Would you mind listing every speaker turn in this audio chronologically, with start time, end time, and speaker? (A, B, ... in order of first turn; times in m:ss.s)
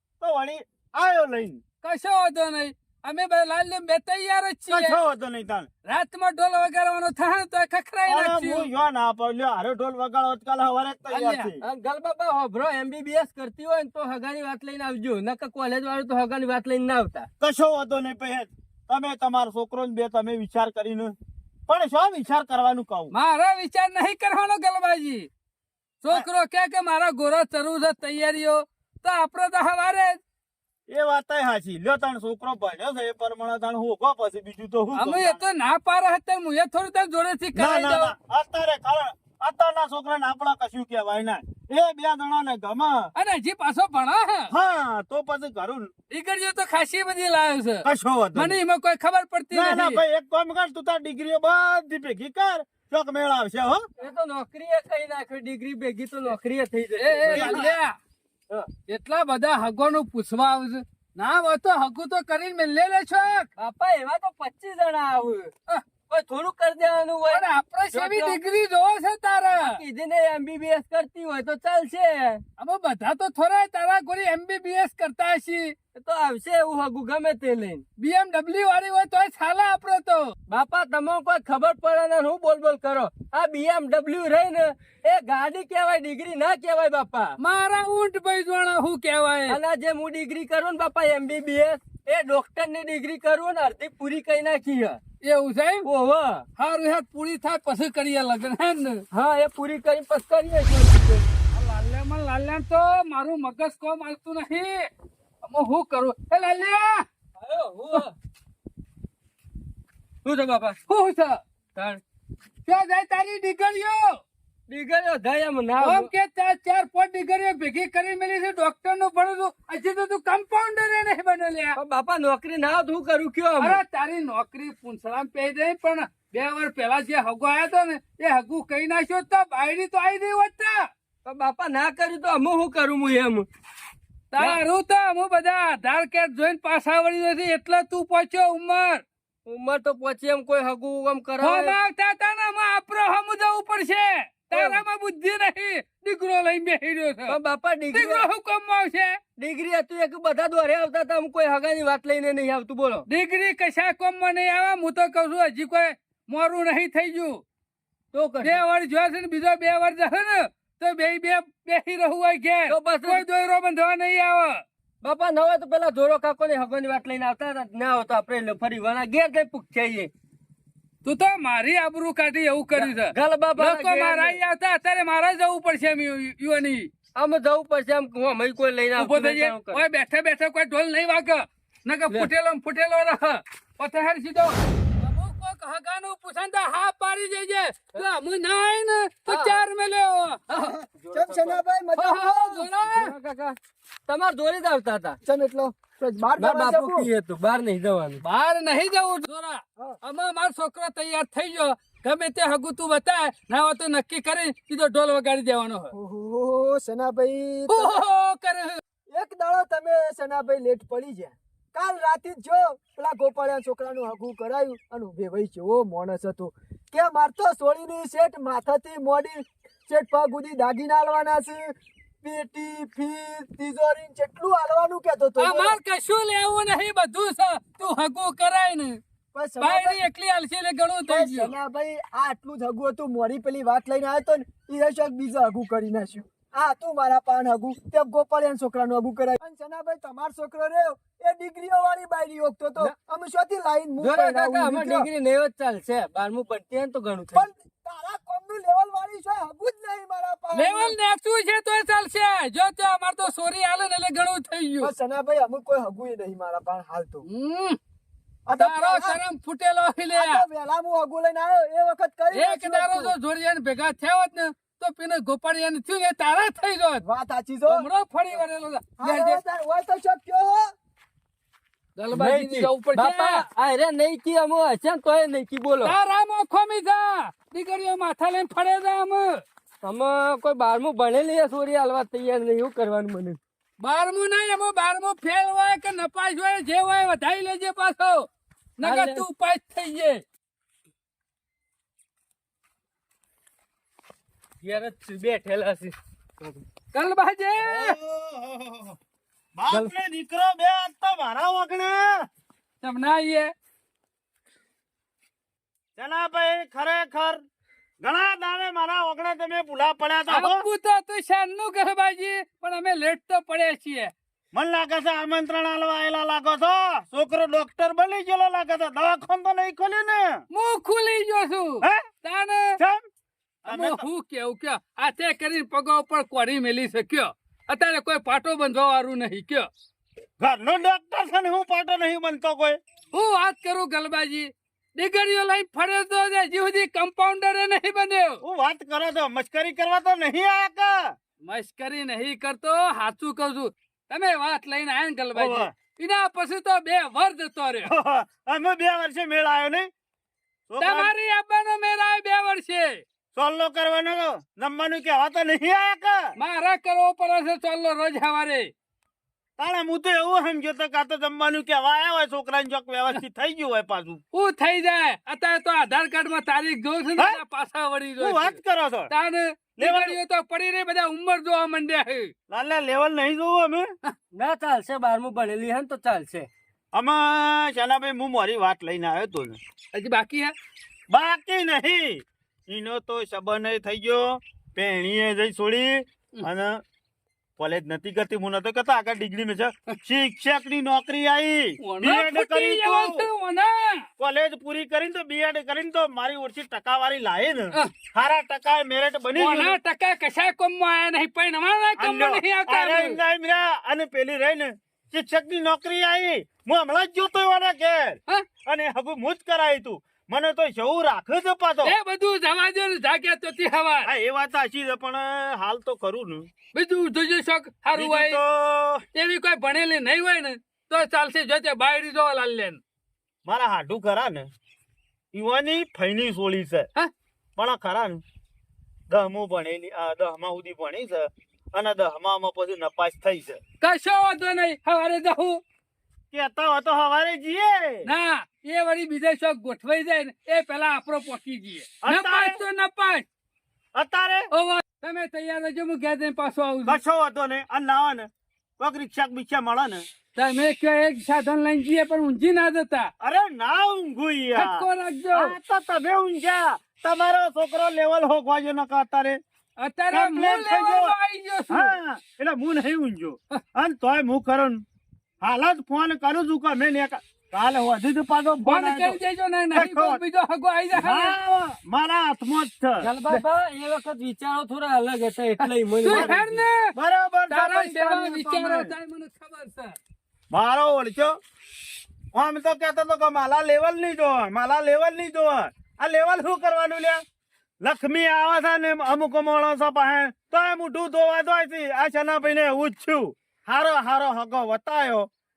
0:00.2-0:01.6 A
0:01.8-0:05.0 B
0:04.7-0:05.7 A
0:05.9-0:08.7 B
0:08.1-0:11.6 A
0:11.1-0:11.5 B
0:11.6-0:17.3 C
0:17.4-0:21.2 A
0:21.7-0:23.1 A
0:23.1-0:25.3 B
0:26.0-0:30.2 B
0:30.9-0:35.4 A
0:34.9-0:38.1 B
0:37.6-0:43.1 A
0:43.2-0:44.5 B
0:44.5-0:45.9 A
0:46.1-0:47.8 B
0:47.8-0:48.6 A
0:48.4-0:50.0 B
0:49.5-0:53.8 A
0:54.0-0:57.7 C
0:57.0-0:58.0 B
0:57.3-0:57.8 A
0:58.9-1:03.5 B
1:03.6-1:05.5 C
1:06.1-1:08.4 C
1:07.3-1:09.8 B
1:09.6-1:12.4 C
1:12.6-1:15.8 B
1:16.0-1:17.8 C
1:18.0-1:20.3 B
1:20.5-1:27.4 C
1:27.4-1:29.6 B
1:29.5-1:35.0 C
1:35.2-1:35.9 B
1:35.8-1:36.5 C
1:36.6-1:39.0 B
1:39.1-1:41.2 C
1:41.5-1:44.9 B
1:45.4-1:47.0 B
1:47.4-1:48.1 C
1:50.2-1:50.8 C
1:50.9-1:51.4 B
1:51.8-1:52.0 C
1:52.7-1:54.2 B
1:54.7-1:56.1 C
1:55.8-2:01.8 B
2:01.8-2:03.8 C
2:03.6-2:10.9 B
2:11.2-2:13.5 C
2:14.3-2:19.0 B
2:19.5-2:21.8 C
2:21.4-2:27.4 B
2:24.5-2:24.8 C
2:27.3-2:28.3 C
2:27.9-2:29.2 B
2:29.4-2:33.1 C
2:33.1-2:37.4 B
2:38.1-2:38.6 C
2:38.4-2:44.6 B
2:42.7-2:43.2 C
2:45.0-2:50.1 C
2:51.0-2:56.9 B
2:52.8-2:54.4 C
2:57.2-2:59.8 C
2:59.0-3:10.7 B
3:09.3-3:09.7 C
3:10.5-3:11.6 C
3:10.6-3:12.7 D
3:12.0-3:13.2 B
3:12.9-3:13.6 C
3:14.1-3:15.2 C
3:15.2-3:17.1 D
3:16.4-3:18.2 C
3:18.2-3:25.9 B
3:25.9-3:28.0 D
3:27.7-3:28.8 B
3:29.1-3:45.8 D
3:45.4-3:49.0 B
3:49.3-3:50.0 D
3:49.6-3:51.5 B
3:51.1-4:05.1 D
4:04.0-4:07.5 C
4:07.3-4:11.0 D
4:10.5-4:14.9 B
4:14.8-4:17.3 D
4:17.3-4:17.8 B
4:18.5-4:19.2 D
4:18.6-4:20.4 B
4:20.1-4:23.2 D
4:22.3-4:27.0 B
4:27.0-4:27.9 D
4:27.7-4:29.4 B
4:29.0-4:30.7 D
4:32.0-4:33.4 B
4:32.1-4:36.0 C
4:35.8-4:39.4 B
4:39.8-4:43.4 C
4:43.8-4:50.2 B
4:48.8-4:49.3 C
4:54.6-4:56.6 C
4:56.9-4:58.0 B
4:57.6-4:59.0 A
4:59.6-5:02.2 A
5:02.8-5:03.5 B
5:06.0-5:07.4 A
5:08.0-5:10.6 A
5:10.3-5:14.1 B
5:14.5-5:20.4 A
5:20.5-5:22.8 B
5:22.8-5:23.0 A
5:23.6-5:24.0 A
5:23.7-5:29.7 B
5:30.4-5:32.8 A
5:33.1-5:38.4 B
5:38.4-5:41.1 A
5:41.4-5:47.9 B
5:45.4-5:45.7 A
5:47.9-5:49.9 A
5:50.7-5:51.1 A
5:50.8-5:53.0 B
5:53.4-5:56.3 A
5:56.4-5:58.7 B
5:59.6-6:04.2 A
6:04.3-6:08.6 B
6:08.2-6:09.1 A
6:09.1-6:12.3 B
6:09.8-6:10.2 A
6:12.5-6:13.9 A
6:14.3-6:16.5 C
6:16.9-6:19.6 A
6:19.9-6:20.5 B
6:21.1-6:26.8 A
6:27.6-6:33.3 A
6:31.8-6:34.0 B
6:34.2-6:39.8 A
6:39.4-6:43.2 B
6:42.0-6:52.0 A
6:51.8-6:54.1 B
6:54.0-6:56.5 A
6:56.7-6:58.4 B
6:57.9-6:59.0 A
6:59.2-7:02.8 B
7:03.5-7:04.5 A
7:05.3-7:06.9 A
7:07.6-7:08.2 A
7:09.1-7:13.6 A
7:13.8-7:15.6 B
7:16.3-7:18.1 A
7:18.0-7:23.2 B
7:22.0-7:22.6 A
7:24.0-7:24.5 A
7:24.5-7:27.0 B
7:26.8-7:28.3 A
7:28.8-7:30.0 A
7:30.4-7:33.1 B
7:33.2-7:39.4 A
7:34.6-7:35.5 B
7:39.8-7:42.0 B
7:40.1-7:41.2 A
7:41.7-7:44.8 A
7:45.4-7:49.2 A
7:48.6-7:51.4 B
7:49.7-7:50.2 A
7:50.9-7:53.1 A
7:53.0-7:56.6 C
7:56.0-7:56.9 B
7:56.1-7:56.4 A
7:57.0-7:58.9 A
7:57.5-8:00.0 B
8:00.5-8:01.4 A
8:02.3-8:07.2 A
8:07.8-8:15.3 A